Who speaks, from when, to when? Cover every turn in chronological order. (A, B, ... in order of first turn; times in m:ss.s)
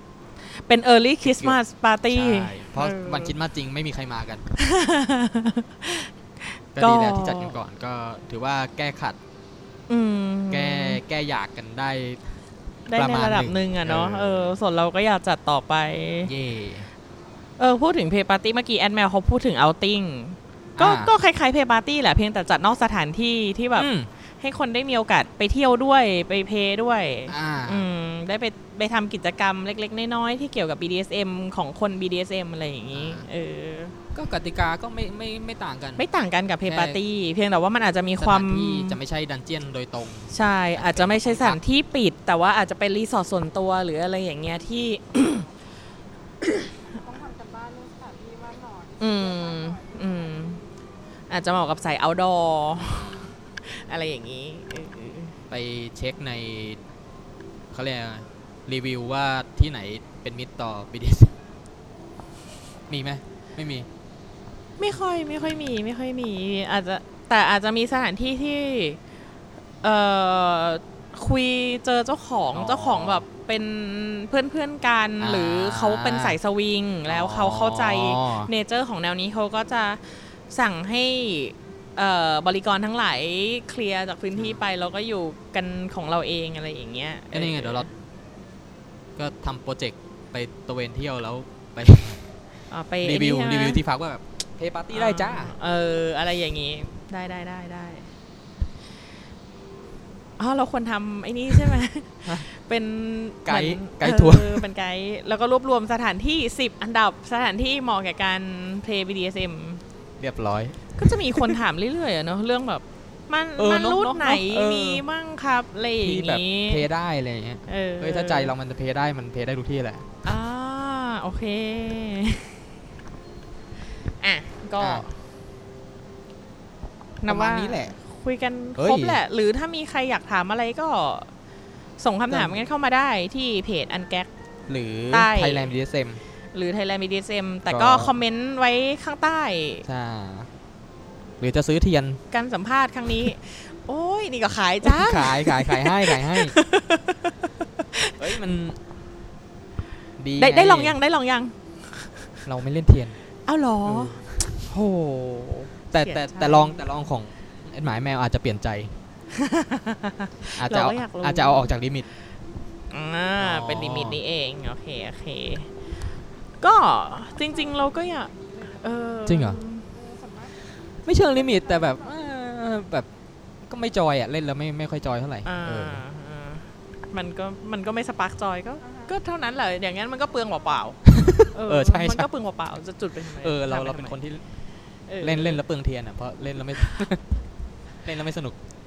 0:00.5-0:03.3 A
0:01.2-0:01.6 B
0:02.1-0:04.4 B
0:04.6-0:07.5 A
0:06.7-0:09.2 B
0:09.9-0:11.0 A
0:10.5-0:12.2 B
0:12.9-0:16.3 A
0:12.9-0:14.5 B
0:16.2-0:16.9 B
0:17.6-0:23.9 A
0:20.8-0:21.1 B
0:23.8-0:24.1 B
0:24.4-0:33.9 A
0:27.3-0:27.9 B
0:32.9-0:33.2 B
0:34.1-0:36.0 B
0:36.0-0:39.0 A
0:36.6-0:37.0 B
0:38.2-0:41.6 B
0:40.3-0:45.5 A
0:46.9-0:50.3 C
0:49.0-0:50.6 A
0:51.3-0:55.3 A
0:55.5-0:56.8 B
0:57.7-1:01.4 B
1:02.9-1:03.9 B
1:04.8-1:09.0 A
1:09.8-1:27.9 A
1:12.5-1:13.2 B
1:15.2-1:16.4 B
1:17.1-1:18.5 B
1:27.3-1:27.9 B
1:29.2-1:32.2 B
1:32.7-1:33.8 A
1:33.0-1:35.5 B
1:34.9-1:38.1 A
1:40.4-1:49.8 A
1:43.4-1:44.6 B
1:50.2-1:51.6 B
1:51.0-1:56.8 A
1:53.6-1:55.0 B
1:56.0-2:00.1 B
1:57.7-1:58.5 A
2:00.2-2:02.6 A
2:04.2-2:05.1 A
2:04.8-2:05.0 B
2:07.2-2:11.3 A
2:07.3-2:07.9 B
2:08.8-2:09.2 B
2:12.0-2:14.3 A
2:12.3-2:12.6 B
2:14.7-2:16.2 B
2:15.1-2:15.7 A
2:16.5-2:19.8 A
2:17.7-2:18.1 B
2:19.8-2:20.5 B
2:21.4-2:22.2 B
2:22.3-2:28.3 A
2:24.8-2:26.5 B
2:28.2-2:28.8 B
2:30.2-2:31.0 B
2:30.4-2:32.3 A
2:32.4-2:33.2 B
2:33.5-2:36.8 A
2:33.8-2:34.6 B
2:35.9-2:38.9 B
2:39.3-2:41.7 A
2:40.6-2:42.1 B
2:42.9-2:45.7 A
2:43.4-2:44.2 B
2:46.6-2:49.9 A
2:47.6-2:49.0 C
2:49.2-2:49.6 B
2:49.9-2:50.6 C
2:51.0-2:53.1 B
2:51.3-2:52.1 C
2:53.6-2:56.0 B
2:55.4-3:01.0 A
2:58.8-2:59.1 C
3:01.0-3:02.3 B
3:01.5-3:04.2 A
3:03.4-3:04.4 B
3:05.1-3:05.6 A
3:05.2-3:07.2 B
3:08.0-3:08.6 B